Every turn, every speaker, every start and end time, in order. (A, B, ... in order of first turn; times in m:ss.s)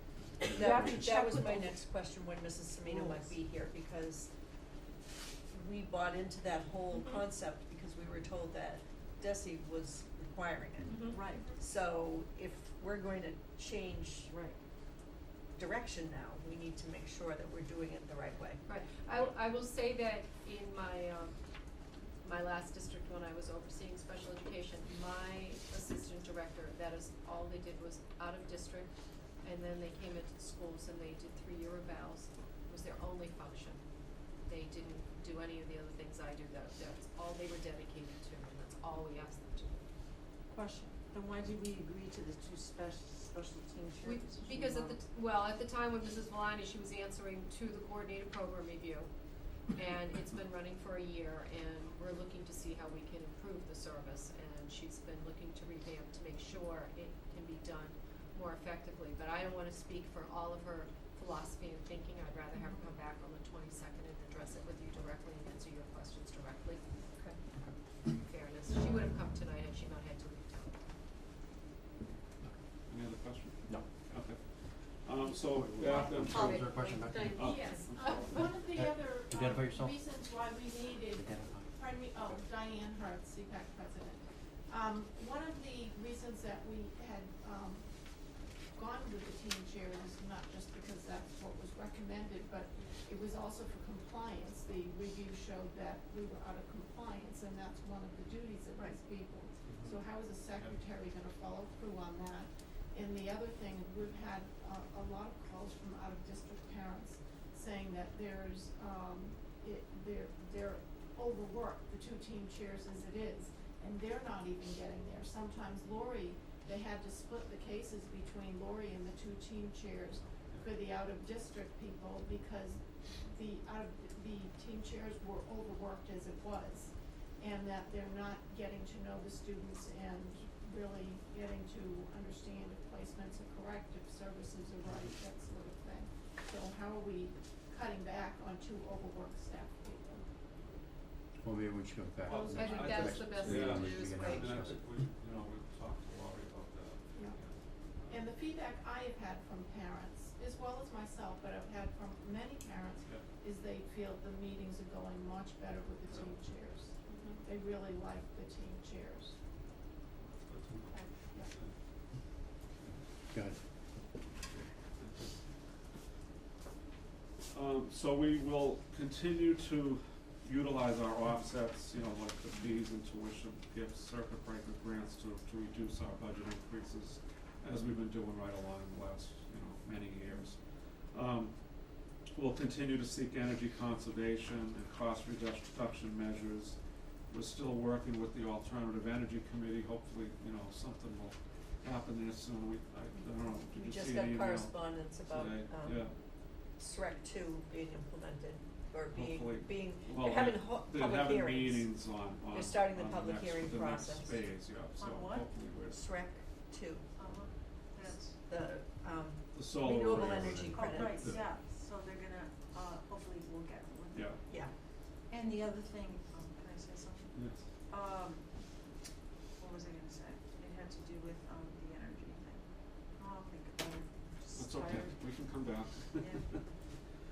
0:00.5-0:04.3 A
0:00.6-0:01.5 B
0:00.6-0:01.8 C
0:02.8-0:03.4 C
0:05.5-0:14.3 A
0:06.9-0:07.2 B
0:10.8-0:11.4 B
0:11.1-0:11.5 C
0:14.3-0:14.6 C
0:15.6-0:18.6 A
0:18.6-0:21.4 B
0:22.2-0:33.8 B
0:34.4-0:39.8 B
0:40.5-0:45.0 C
0:44.0-0:49.1 B
0:49.7-1:06.8 B
1:08.1-1:10.7 B
1:12.9-1:16.6 D
1:15.5-1:17.8 E
1:15.8-1:18.6 B
1:17.3-1:18.5 D
1:17.9-1:27.9 F
1:18.7-1:20.0 E
1:21.1-1:22.4 E
1:28.7-2:20.3 F
1:39.6-1:40.8 D
2:00.3-2:00.7 D
2:21.4-2:24.8 E
2:22.2-2:28.2 D
2:22.3-2:24.6 B
2:28.1-2:39.4 F
2:36.1-2:36.4 D
2:37.0-2:37.4 B
2:40.2-2:41.7 D
2:43.3-2:43.6 E
2:44.6-2:45.4 D
2:47.5-3:01.6 D
3:02.3-3:06.8 D
3:07.3-3:16.1 D
3:13.7-3:16.1 A
3:16.8-3:21.9 A
3:19.1-3:26.0 D
3:22.5-3:24.4 A
3:25.0-3:25.5 C
3:25.9-3:27.1 A
3:27.2-3:28.4 C
3:28.4-3:31.4 A
3:29.5-3:31.5 D
3:30.2-3:30.7 E
3:30.7-3:34.3 C
3:34.1-3:34.4 D
3:35.3-3:37.3 C
3:37.3-3:37.6 D
3:37.9-3:38.5 C
3:39.6-3:42.6 C
3:43.2-3:45.1 C
3:44.6-3:46.6 D
3:46.2-3:46.5 C